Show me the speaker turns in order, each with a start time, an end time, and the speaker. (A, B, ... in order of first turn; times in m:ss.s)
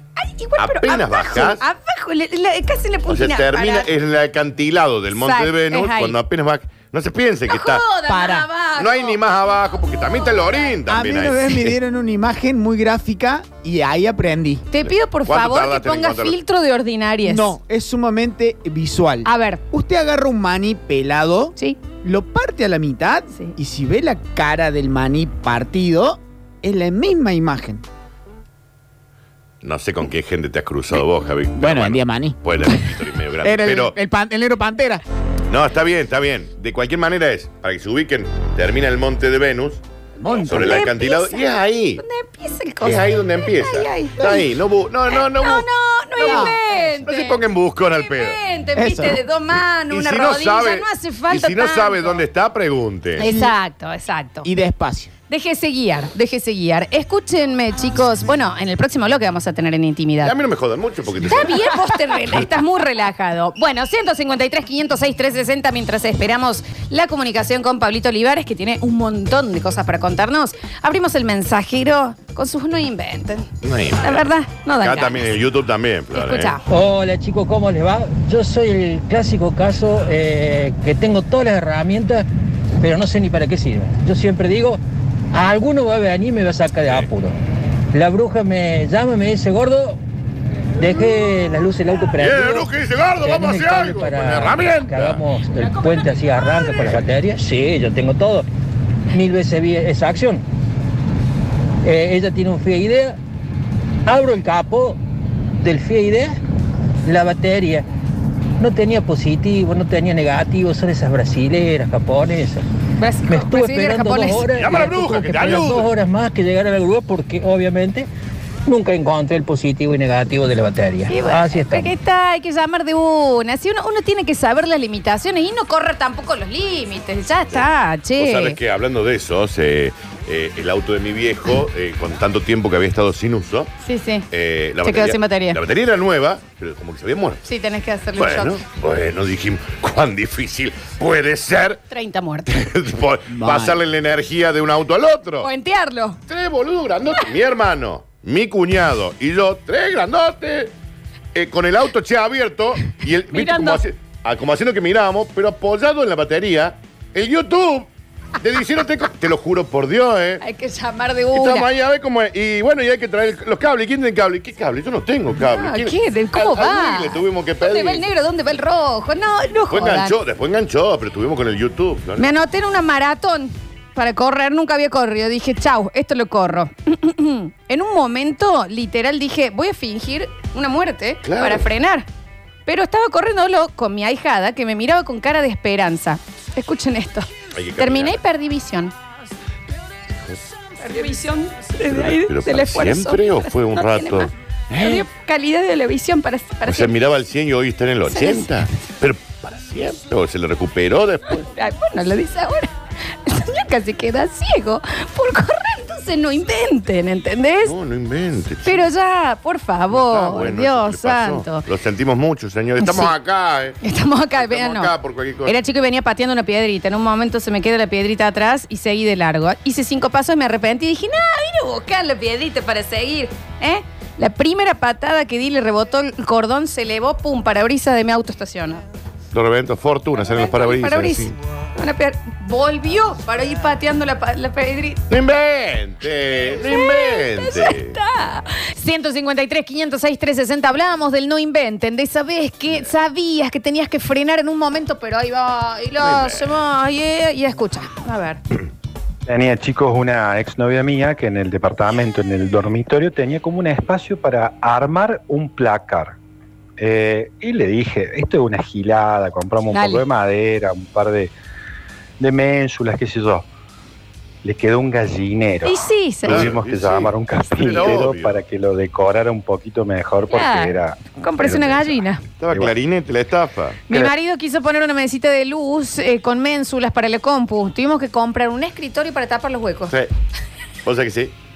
0:00.2-0:03.9 A
0:00.6-0:01.6 B
0:03.1-0:08.0 B
0:05.2-0:06.2 A
0:07.5-0:09.2 A
0:08.1-0:08.5 C
0:08.7-0:11.8 B
0:10.9-0:14.6 C
0:14.7-0:17.5 A
0:14.7-0:16.4 B
0:17.2-0:27.8 C
0:19.2-0:19.6 A
0:29.6-0:34.0 B
0:31.6-0:32.9 C
0:33.4-0:35.0 C
0:35.5-0:42.0 B
0:40.2-0:40.8 C
0:40.6-0:41.4 A
0:42.0-0:44.5 A
0:42.8-0:45.7 B
0:45.1-0:47.4 A
0:46.2-0:48.4 B
0:46.3-0:47.0 C
0:47.9-0:52.2 A
0:48.8-0:49.2 C
0:49.5-0:53.3 B
0:53.2-0:54.5 A
0:53.2-0:53.5 C
0:54.4-0:55.1 C
0:55.3-1:00.3 A
1:00.2-1:02.4 B
1:01.2-1:13.5 A
1:13.6-1:16.6 B
1:14.0-1:15.2 A
1:16.1-1:16.6 A
1:16.7-1:22.3 D
1:22.8-1:24.8 D
1:25.3-1:27.3 D
1:27.9-1:30.0 D
1:30.8-1:32.7 D
1:32.2-1:35.2 B
1:33.2-1:38.5 D
1:35.6-1:36.0 A
1:39.1-1:40.4 D
1:41.8-1:43.2 D
1:44.0-1:45.0 D
1:45.6-1:46.4 D
1:47.0-1:47.8 D
1:48.6-1:52.6 D
1:53.0-1:54.5 A
1:53.3-1:58.1 D
1:54.5-1:55.9 B
1:58.6-2:01.9 D
2:01.1-2:08.6 A
2:07.5-2:13.7 B
2:13.8-2:14.3 A
2:14.3-2:17.4 B
2:14.8-2:15.6 A
2:17.4-2:18.6 A
2:18.1-2:21.8 B
2:21.9-2:22.6 A
2:22.5-2:25.5 B
2:23.3-2:23.8 C
2:25.4-2:26.2 A
2:26.3-2:30.7 B
2:31.3-2:37.9 B
2:33.3-2:33.8 A
2:38.4-2:40.4 B
2:40.4-2:41.7 A
2:41.3-2:48.1 B
2:45.5-2:50.2 A
2:49.7-2:52.3 B
2:52.2-3:02.0 A
3:01.2-3:01.7 B
3:02.6-3:07.3 A
3:07.5-3:08.2 B
3:07.8-3:08.9 A
3:10.8-3:16.9 A
3:11.9-3:15.0 B
3:16.6-3:21.5 B
3:18.1-3:18.5 A
3:21.4-3:22.7 A
3:23.2-3:27.7 A
3:27.6-3:28.9 B
3:28.6-3:31.6 A
3:29.9-3:33.8 B
3:32.8-3:33.1 A
3:33.8-3:34.9 A
3:34.3-3:35.6 B
3:35.4-3:48.8 A
3:49.3-3:51.4 B
3:50.2-3:55.0 A
3:55.1-3:58.0 B
3:56.6-4:08.4 A
4:06.0-4:06.6 B
4:09.3-4:16.2 E
4:16.8-4:21.3 E
4:19.7-4:20.0 A
4:22.2-4:23.5 E
4:24.4-4:31.0 E
4:25.6-4:26.5 A
4:26.3-4:28.3 B
4:30.3-4:32.2 A
4:31.5-4:31.9 B
4:32.4-4:34.1 B
4:32.5-4:32.7 E
4:33.9-4:39.9 A
4:39.9-4:40.1 B
4:40.8-4:41.3 B